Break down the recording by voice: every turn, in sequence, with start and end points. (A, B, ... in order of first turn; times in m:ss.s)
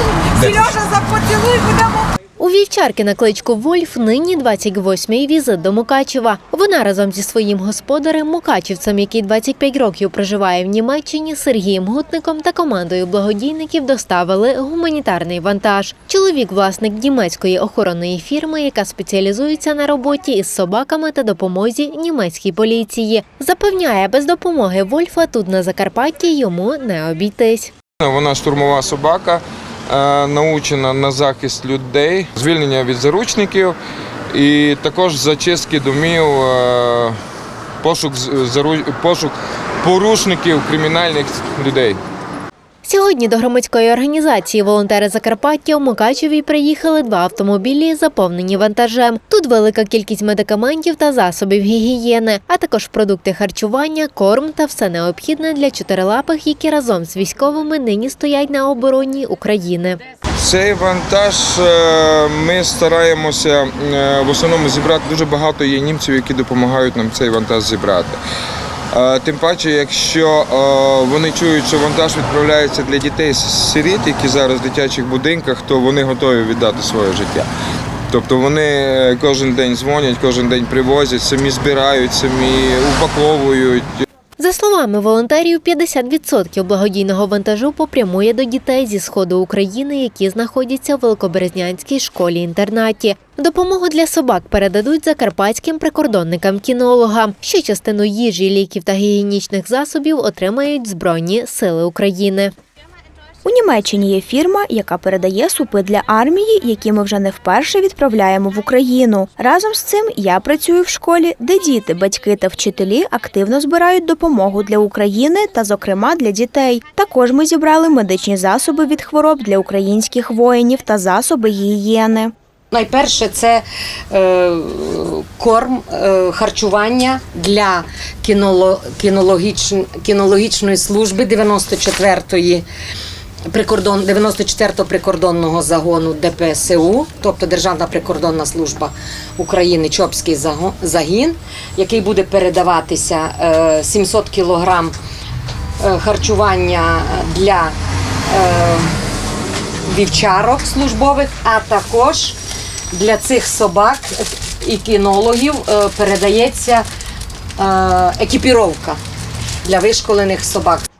0:00.3-0:02.0 A
0:02.4-0:27.7 B
0:28.0-0:33.8 C
0:34.3-0:37.2 C
0:37.8-0:42.0 C
0:42.8-1:00.0 B
1:00.4-1:08.2 C
1:08.9-1:17.5 C
1:18.1-1:23.8 C
1:24.4-1:42.5 B
1:43.4-2:02.3 D
2:02.7-2:12.6 A
2:13.5-2:24.9 A
2:25.8-2:27.7 A
2:28.3-2:28.9 A
2:29.8-2:32.4 A
2:32.9-2:36.8 A
2:37.6-2:39.0 A
2:39.6-2:40.9 A